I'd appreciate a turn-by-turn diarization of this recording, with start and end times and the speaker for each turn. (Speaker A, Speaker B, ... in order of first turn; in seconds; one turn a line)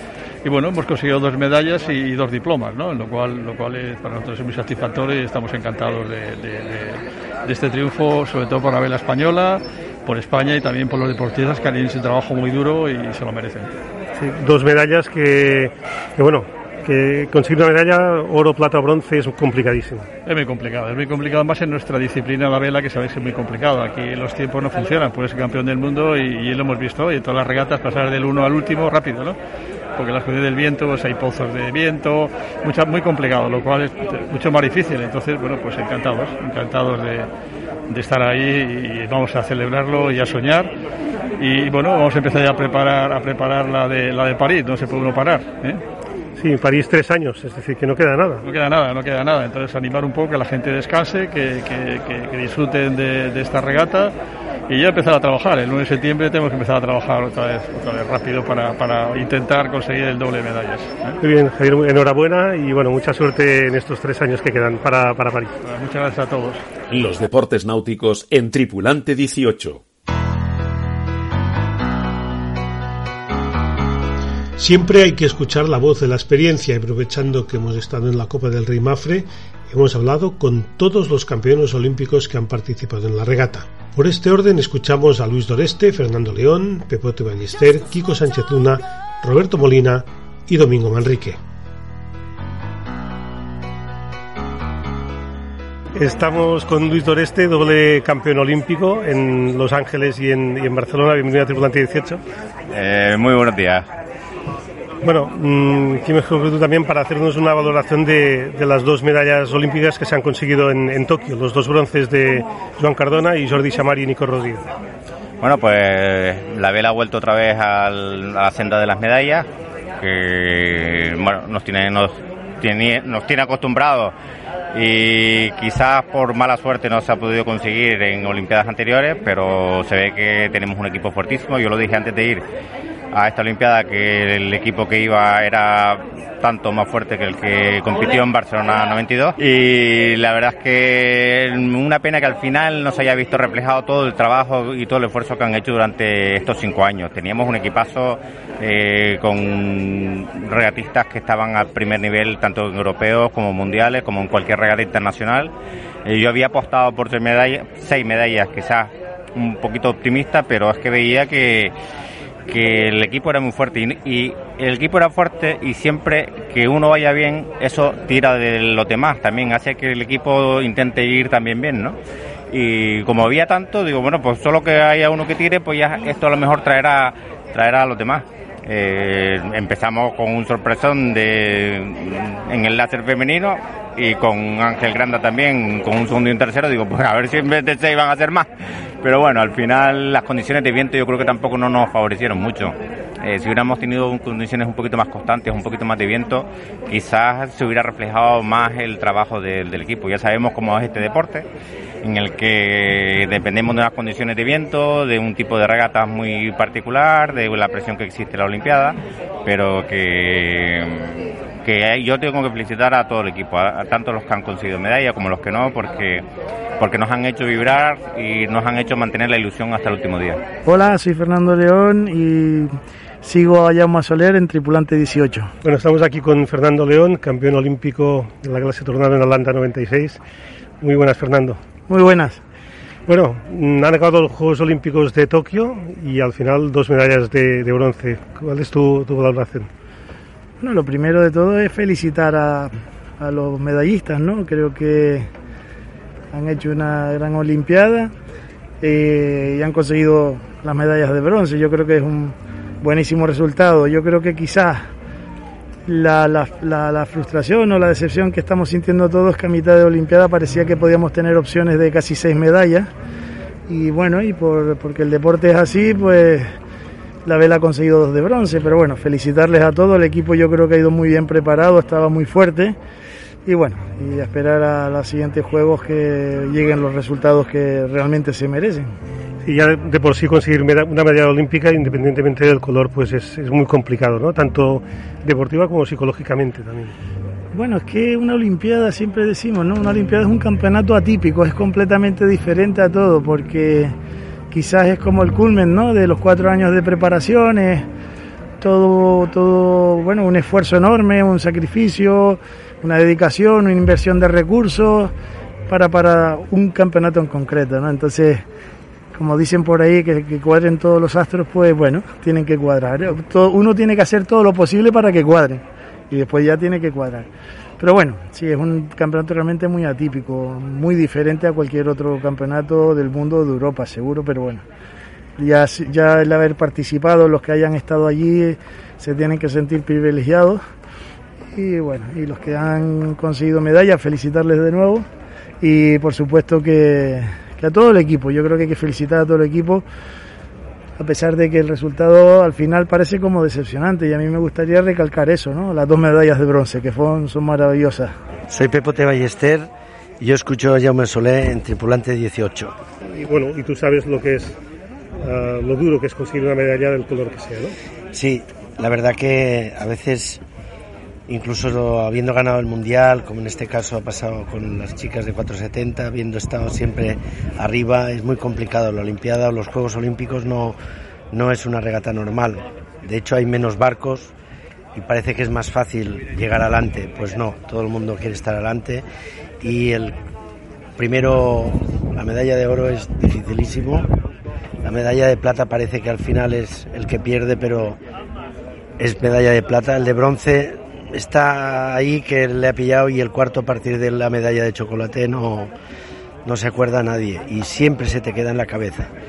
Speaker A: 0.4-13.7
Speaker B: 14.1-20.1
Speaker A: 20.2-29.4
Speaker A: 29.9-37.3
Speaker A: 37.9-40.7
Speaker A: 41.4-45.8
Speaker B: 46.4-48.4
Speaker A: 48.4-54.1
Speaker A: 54.7-61.2
Speaker B: 61.2-65.6
Speaker A: 65.6-66.6
Speaker C: 66.9-69.8
Speaker D: 74.6-91.4
Speaker B: 95.9-102.2
Speaker E: 102.7-103.9
Speaker B: 105.0-114.6
Speaker E: 115.4-119.5
Speaker E: 120.0-124.1
Speaker E: 124.7-132.4
Speaker E: 133.1-155.5
Speaker E: 156.0-161.7
Speaker E: 162.5-172.0
Speaker E: 172.5-188.5
Speaker E: 189.0-201.4
Speaker E: 202.0-216.2
Speaker E: 216.8-220.4
Speaker F: 220.7-225.5
Speaker B: 225.6-230.2
Speaker B: 230.8-231.6
Speaker F: 231.9-232.4
Speaker B: 233.1-239.7
Speaker F: 240.6-245.3
Speaker F: 246.3-248.1
Speaker F: 248.8-254.9
Speaker F: 255.8-262.9
Speaker F: 263.7-266.5
Speaker F: 267.2-272.8
Speaker F: 273.4-278.9
Speaker B: 279.4-286.9
Speaker F: 287.5-293.9
Speaker F: 294.5-297.9
Speaker F: 298.6-305.1
Speaker F: 305.7-308.4
Speaker F: 309.1-324.6
Speaker F: 325.4-330.6
Speaker F: 331.5-335.1
Speaker F: 335.6-339.8
Speaker F: 341.0-348.1
Speaker G: 348.5-352.8
Speaker B: 353.0-354.6
Speaker B: 355.2-357.7
Speaker G: 358.1-360.4
Speaker G: 361.3-370.8
Speaker G: 371.3-374.3
Speaker G: 374.9-379.0
Speaker G: 379.6-380.1
Speaker G: 380.9-384.1
Speaker G: 384.8-388.0
Speaker G: 389.0-395.7
Speaker G: 396.4-399.1